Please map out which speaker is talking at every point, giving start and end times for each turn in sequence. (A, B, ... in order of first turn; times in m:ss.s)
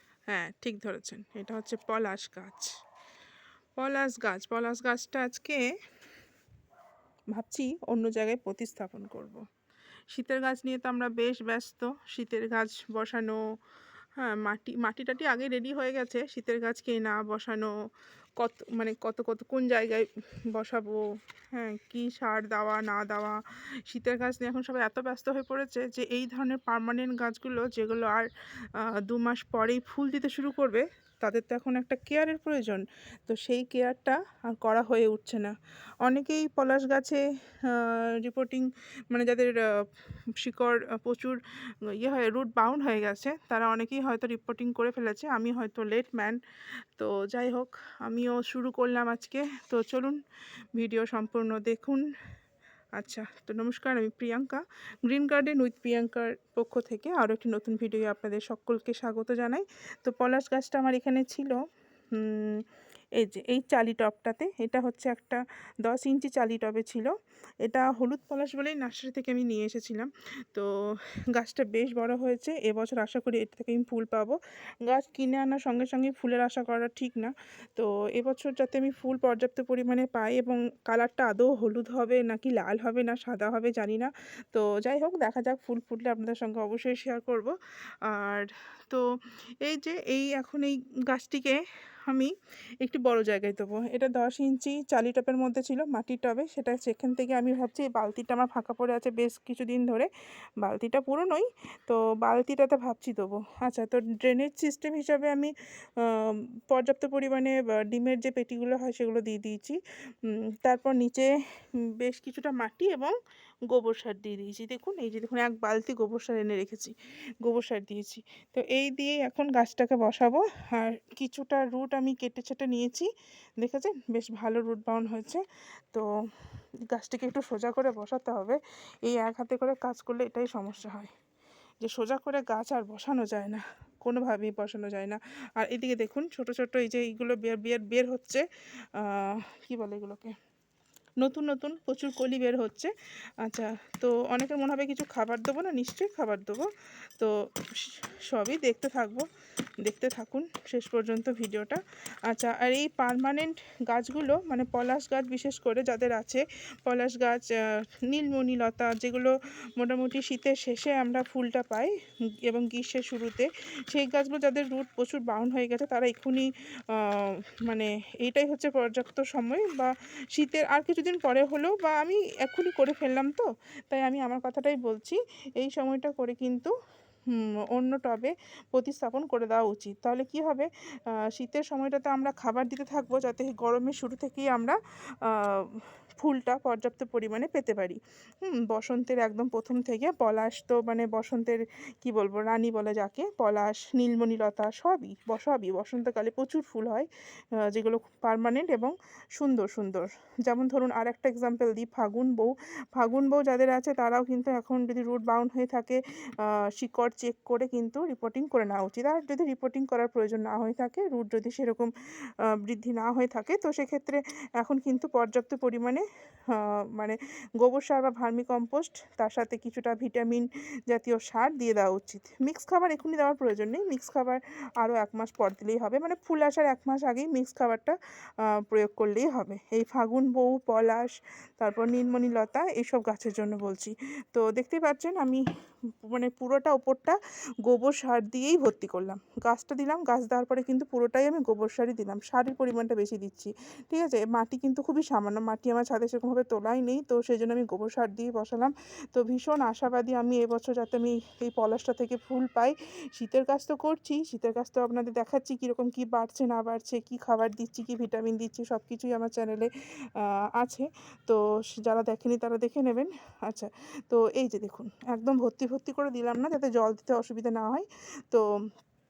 0:00.3-0:02.7 A
0:03.8-0:05.7 A
0:07.3-0:09.4 A
0:10.1-0:13.4 A
0:14.2-0:17.7 A
0:18.4-0:41.4 A
0:41.9-0:46.4 A
0:47.0-0:50.2 A
0:50.8-0:52.0 A
0:53.0-1:01.6 A
1:02.1-1:02.6 A
1:03.2-1:07.1 A
1:07.6-1:10.7 A
1:11.3-1:27.5 A
1:28.1-1:29.0 A
1:29.6-1:51.3 A
1:52.0-1:53.2 A
1:53.7-2:03.1 A
2:03.6-2:05.4 A
2:06.9-2:11.1 A
2:11.8-2:20.4 A
2:21.2-2:22.9 A
2:23.4-2:29.3 A
2:29.8-2:41.9 A
2:42.5-2:56.7 A
2:57.3-3:17.1 A
3:17.6-3:31.9 A
3:32.5-3:55.4 A
3:56.0-4:28.5 A